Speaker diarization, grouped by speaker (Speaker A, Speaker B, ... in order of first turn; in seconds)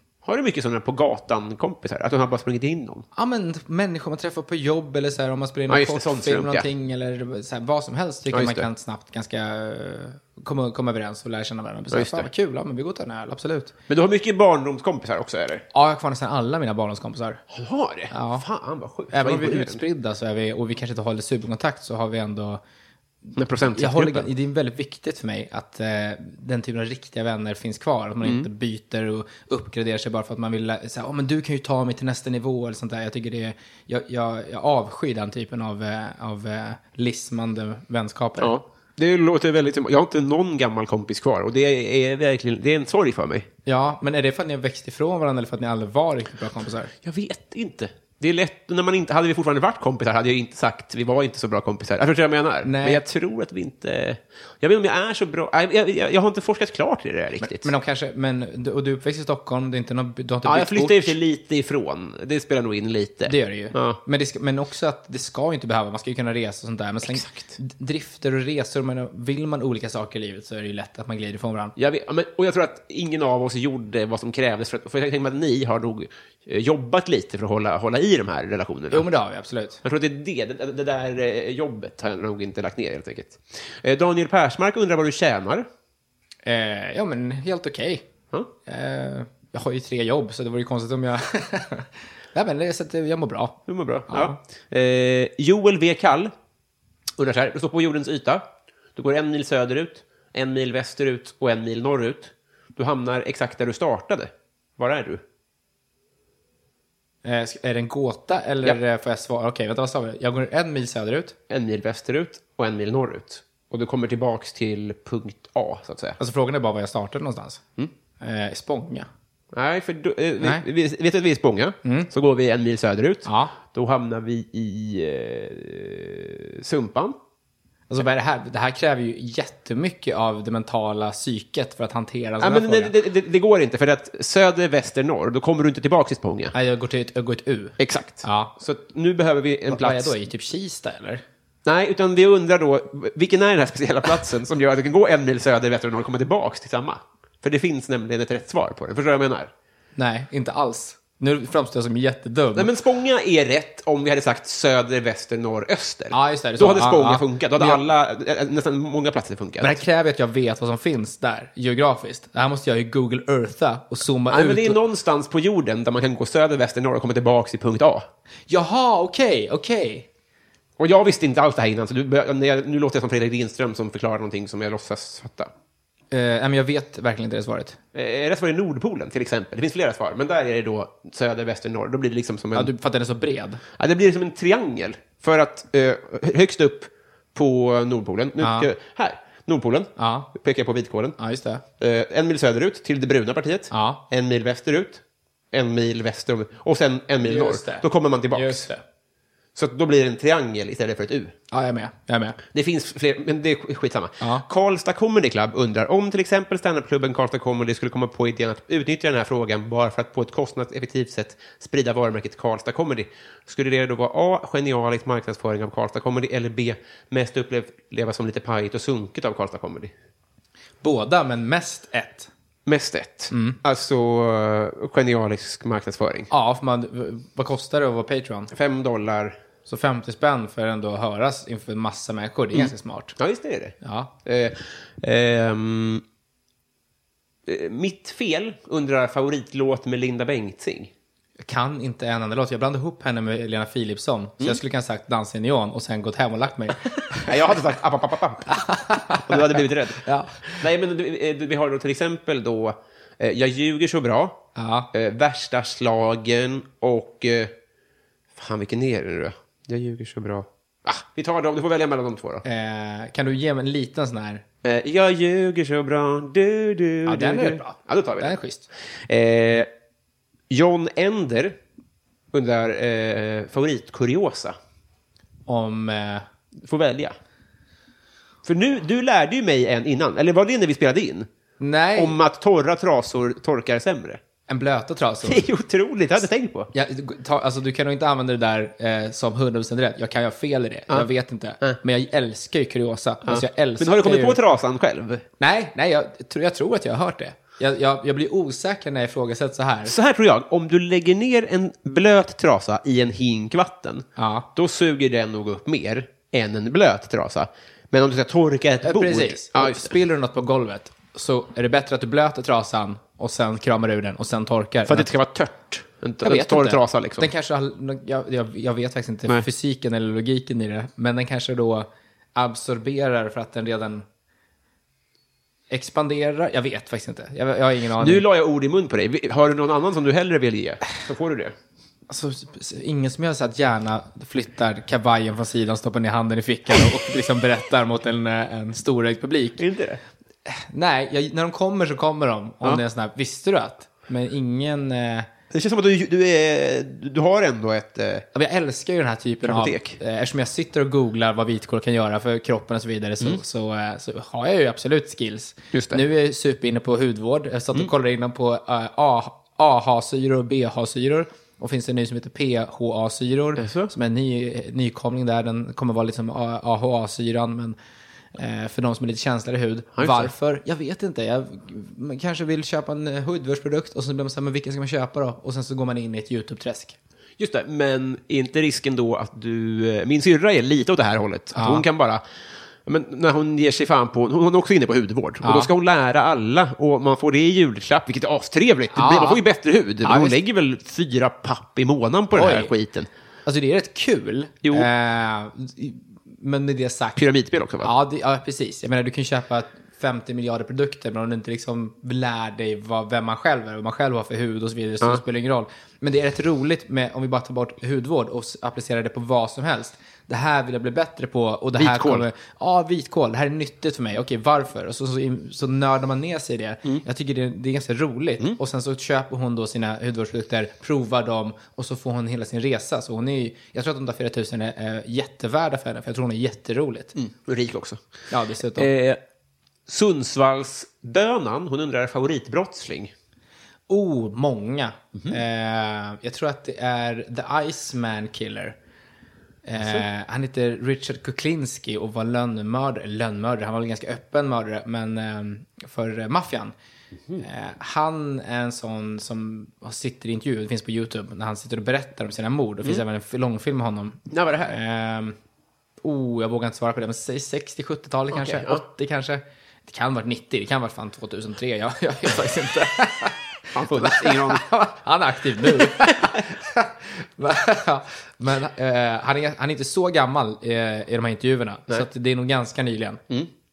Speaker A: 0.2-3.1, 5.7-6.7, 8.3-8.7, 11.9-12.3, 13.9-15.7, 17.5-19.8, 23.4-24.3, 28.2-28.5, 38.4-43.5, 47.0-57.7, 60.5-64.0, 67.0-67.6, 71.8-79.1, 79.8-85.7, 93.7-96.3, 97.2-105.2, 111.5-116.2, 119.5-127.2, 132.4-136.6, 137.8-140.1, 141.7-149.5, 152.6-159.8, 164.3-168.1, 170.8-175.5, 177.9-182.7, 183.8-191.2, 191.8-198.7, 199.6-201.3, 202.5-219.9, 222.7-226.3, 228.5-229.4, 232.5-236.0, 237.5-240.9, 247.2-257.5, 258.4-262.4, 264.6-268.4, 269.1-269.7, 270.5-271.6, 272.3-274.6, 276.6-277.2, 278.4-281.3, 282.0-284.2, 285.2-286.7, 293.2-295.2, 299.9-309.9, 314.9-317.3, 328.0-331.6, 339.6-340.0, 345.5-348.3, 349.4-350.0, 355.7-356.0, 363.6-363.9, 370.0-370.3, 377.4-382.2, 382.9-393.1, 397.2-397.9, 411.8-412.3, 427.2-428.0, 428.8-429.2, 429.9-433.1, 439.8-440.1, 454.3-454.8, 458.3-458.8, 463.7-464.7, 465.9-466.4
Speaker B: 3.1-13.7, 15.7-17.4, 18.1-18.4, 19.1-22.6, 23.3-38.5, 43.7-46.9, 52.6-53.0, 57.4-61.2, 63.3-71.8, 78.9-79.8, 86.5-88.1, 88.7-94.4, 107.2-111.4, 116.2-117.7, 118.2-119.1, 121.8-122.1, 123.3-123.5, 127.9-132.9, 136.5-138.5, 139.7-141.2, 150.0-152.7, 156.1-157.8, 159.6-164.8, 168.5-170.1, 176.1-177.8, 182.6-183.6, 188.4-188.7, 190.0-190.3, 191.2-191.6, 193.7-194.0, 197.2-198.8, 201.5-202.4, 220.8-222.3, 223.3-223.6, 226.3-228.5, 229.7-233.2, 233.8-234.1, 241.4-247.4, 248.5-250.6, 254.6-254.9, 262.4-264.4, 267.1-268.7, 275.5-276.3, 281.6-282.2, 284.5-285.4, 286.7-294.4, 295.4-299.9, 304.2-304.5, 308.8-315.1, 316.2-324.1, 325.7-328.2, 332.1-339.6, 340.5-345.3, 348.3-367.8, 368.4-377.0, 381.6-381.9, 385.4-385.7, 388.9-389.4, 390.0-390.4, 392.4-392.7, 393.4-397.2, 397.8-427.1, 428.3-428.9, 433.9-438.8, 439.6-446.7, 447.4-455.4, 456.0-473.2